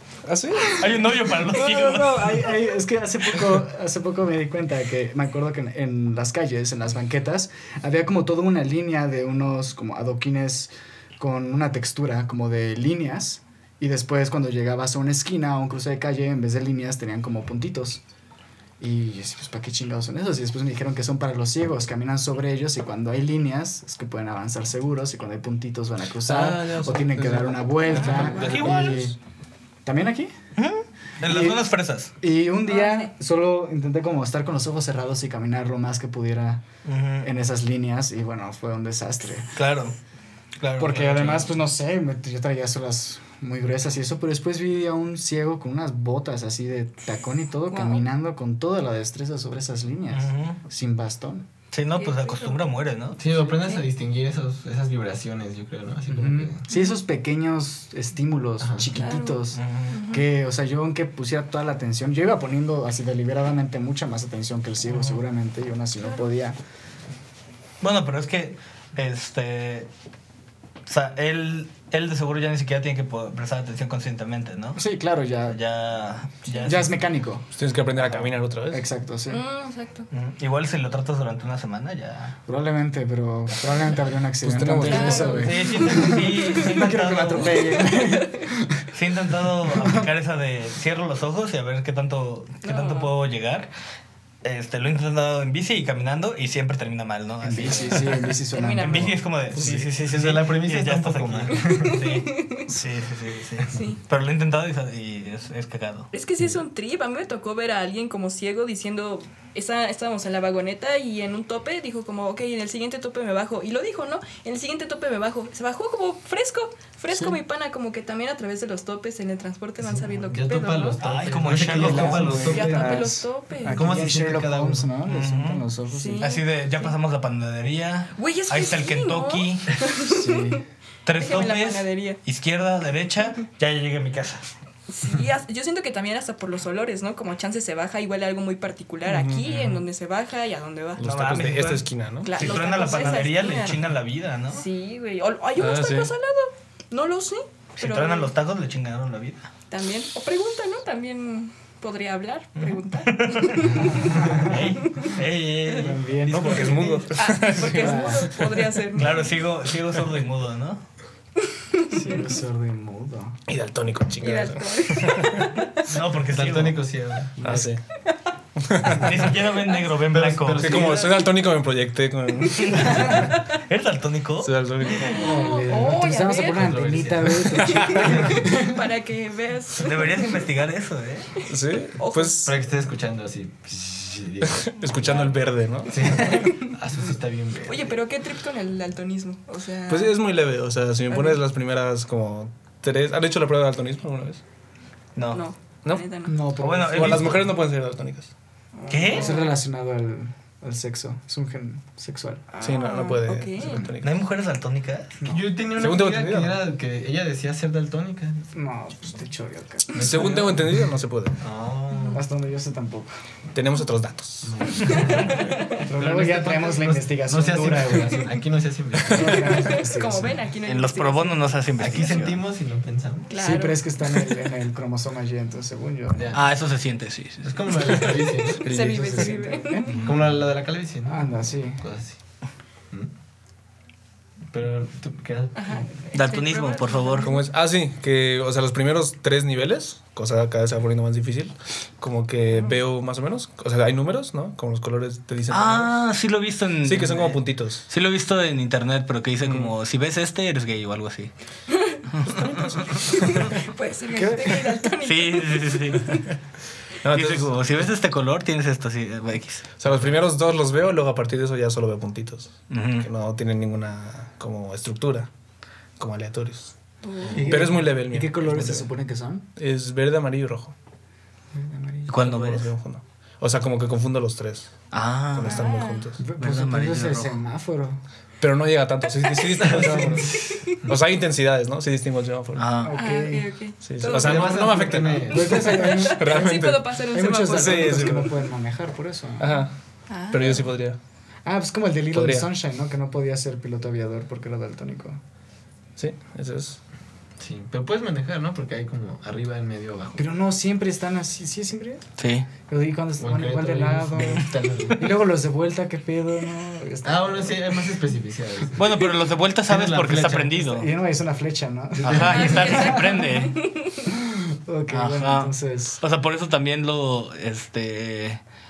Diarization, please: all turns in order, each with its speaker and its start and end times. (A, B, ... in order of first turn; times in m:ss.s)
0:00.3-0:00.9 A
0:00.7-0:02.4 B
0:01.3-0:18.0 C
0:18.8-0:29.2 C
0:26.2-0:29.1 A
0:27.9-0:28.8 D
0:28.5-0:29.0 B
0:29.8-0:30.3 C
0:30.6-0:32.1 B
0:31.2-0:31.6 C
0:32.2-0:36.6 C
0:32.7-0:33.1 D
0:36.8-0:37.3 B
0:37.2-0:39.6 C
0:39.6-0:40.0 B
0:40.6-0:41.4 B
0:40.8-0:51.5 C
0:47.7-0:48.0 D
0:50.1-0:50.6 B
0:51.7-0:53.2 B
0:52.0-0:52.6 D
0:53.2-0:56.6 E
0:53.4-0:53.9 D
0:56.1-1:06.6 C
0:56.7-0:57.0 D
0:58.6-0:58.9 E
0:59.0-1:00.3 D
0:59.5-1:00.0 B
1:04.9-1:05.2 B
1:06.0-1:06.2 D
1:07.8-1:09.9 B
1:10.9-1:14.8 B
1:14.8-1:15.6 C
1:15.5-1:16.9 B
1:16.6-1:19.4 C
1:17.6-1:18.8 A
1:19.3-1:20.1 D
1:20.1-1:22.4 B
1:22.5-1:28.9 C
1:24.4-1:25.6 A
1:24.8-1:26.6 D
1:25.4-1:27.9 B
1:27.4-1:28.4 D
1:28.9-1:33.7 B
1:29.6-1:30.1 C
1:32.6-1:33.1 D
1:34.4-1:38.2 B
1:37.4-1:39.2 C
1:38.5-1:39.1 D
1:38.8-1:46.1 B
1:39.6-1:39.9 A
1:39.6-1:42.0 E
1:41.6-1:42.7 D
1:43.7-1:44.0 D
1:46.1-2:01.0 D
1:59.8-2:04.9 E
2:01.0-2:02.7 B
2:01.5-2:06.3 C
2:02.5-2:04.0 D
2:05.1-2:05.6 B
2:05.9-2:06.4 D
2:06.2-2:09.8 B
2:08.2-2:10.6 D
2:10.0-2:10.6 C
2:11.1-2:14.5 B
2:11.2-2:12.2 D
2:14.9-2:21.0 D
2:19.0-2:19.8 A
2:21.0-2:22.9 A
2:21.0-2:24.6 B
2:22.2-2:23.9 D
2:24.5-2:28.3 D
2:25.6-2:26.1 A
2:27.8-2:29.5 B
2:29.7-2:35.2 D
2:32.6-2:37.1 B
2:33.8-2:34.5 C
2:35.7-2:37.0 C
2:36.3-2:38.2 A
2:37.2-2:39.4 D
2:37.6-2:38.4 C
2:39.0-2:40.8 B
2:41.7-2:42.3 D
2:41.9-2:43.4 C
2:43.5-2:45.4 A
2:44.2-2:45.8 D
2:45.8-2:46.8 B
2:46.3-2:47.7 E
2:47.4-2:47.8 A
2:48.6-2:49.3 A
2:48.9-2:50.9 B
2:50.1-2:51.2 E
2:50.5-2:53.3 A
2:52.6-2:54.6 B
2:52.6-2:53.4 D
2:54.4-2:55.2 A
2:54.9-3:00.4 D
2:55.1-2:58.8 C
2:56.5-2:58.4 E
2:57.8-2:58.1 A
2:59.8-3:01.3 B
3:01.5-3:02.6 A
3:02.0-3:02.5 D
3:02.4-3:08.0 E
3:04.4-3:06.5 A
3:06.0-3:06.7 D
3:07.7-3:10.2 D
3:09.9-3:14.4 A
3:11.1-3:11.4 D
3:15.2-3:15.4 B
3:15.3-3:16.4 D
3:16.3-3:17.5 C
3:16.6-3:17.5 B
3:16.9-3:18.3 A
3:18.8-3:19.5 D
3:18.9-3:19.3 B
3:19.1-3:22.5 C
3:22.5-3:23.9 D
3:22.6-3:24.2 A
3:23.6-3:23.9 C
3:24.0-3:25.2 B
3:25.2-3:28.4 E
3:25.7-3:26.6 A
3:28.5-3:30.6 C
3:30.0-3:31.4 A
3:30.0-3:30.9 E
3:31.4-3:32.2 E
3:31.9-3:32.2 D
3:32.1-3:33.1 C
3:33.5-3:34.5 A
3:34.4-3:39.7 E
3:34.8-3:35.8 D
3:35.8-3:38.4 C
3:39.1-3:40.5 C
3:39.2-3:41.6 D
3:40.6-3:42.4 B
3:41.8-3:43.3 E
3:43.3-3:44.2 D
3:43.4-3:46.4 C
3:46.1-3:46.4 E
3:46.3-3:48.0 B
3:47.4-3:49.2 E
3:48.6-3:50.0 C
3:48.6-3:50.0 D
3:49.9-3:50.2 B
3:50.0-3:52.2 E
3:51.0-3:51.8 C
3:54.5-3:55.9 E
3:55.6-3:57.4 D
3:56.1-3:57.3 B
3:57.2-4:06.1 A
4:05.5-4:11.3 B
4:06.8-4:07.8 A
4:09.4-4:09.7 A
4:12.1-4:13.5 B
4:12.2-4:13.6 A
4:13.1-4:16.3 D
4:14.1-4:14.9 C
4:15.0-4:16.2 B
4:17.0-4:17.7 A
4:17.1-4:19.7 B
4:19.8-4:25.3 A
4:22.7-4:23.1 B
4:26.0-4:26.7 A
4:27.0-4:27.6 D
4:27.3-4:29.4 C
4:27.4-4:28.9 A
4:29.6-4:30.7 A
4:31.6-4:32.1 C
4:32.1-4:32.7 B
4:32.2-4:34.8 A
4:34.9-4:35.6 B
4:35.3-4:36.2 A
4:35.4-4:36.1 D
4:36.2-4:38.0 C
4:36.4-4:37.4 B
4:38.4-4:40.3 A
4:39.2-4:39.5 D
4:39.6-4:41.0 E
4:39.7-4:40.3 C
4:40.9-4:42.8 A
4:42.6-4:42.9 B
4:42.8-4:43.5 C
4:42.9-4:48.2 D
4:43.8-4:48.3 A
4:44.1-4:45.9 E
4:45.3-4:46.6 C
4:47.1-4:49.6 C
4:49.4-4:49.7 A
4:50.1-4:50.6 D
4:50.3-4:51.0 A
4:51.4-4:55.2 C
4:52.1-4:52.5 A
4:56.0-4:56.8 A
4:57.4-5:00.3 E
5:00.2-5:02.1 C
5:02.2-5:02.5 B
5:02.7-5:07.8 C
5:03.2-5:05.2 E
5:07.0-5:09.1 E
5:08.8-5:10.9 B
5:09.7-5:10.6 E
5:10.6-5:13.1 C
5:12.0-5:12.6 E
5:12.0-5:13.6 B
5:12.3-5:14.1 D
5:14.3-5:16.0 C
5:14.9-5:18.4 B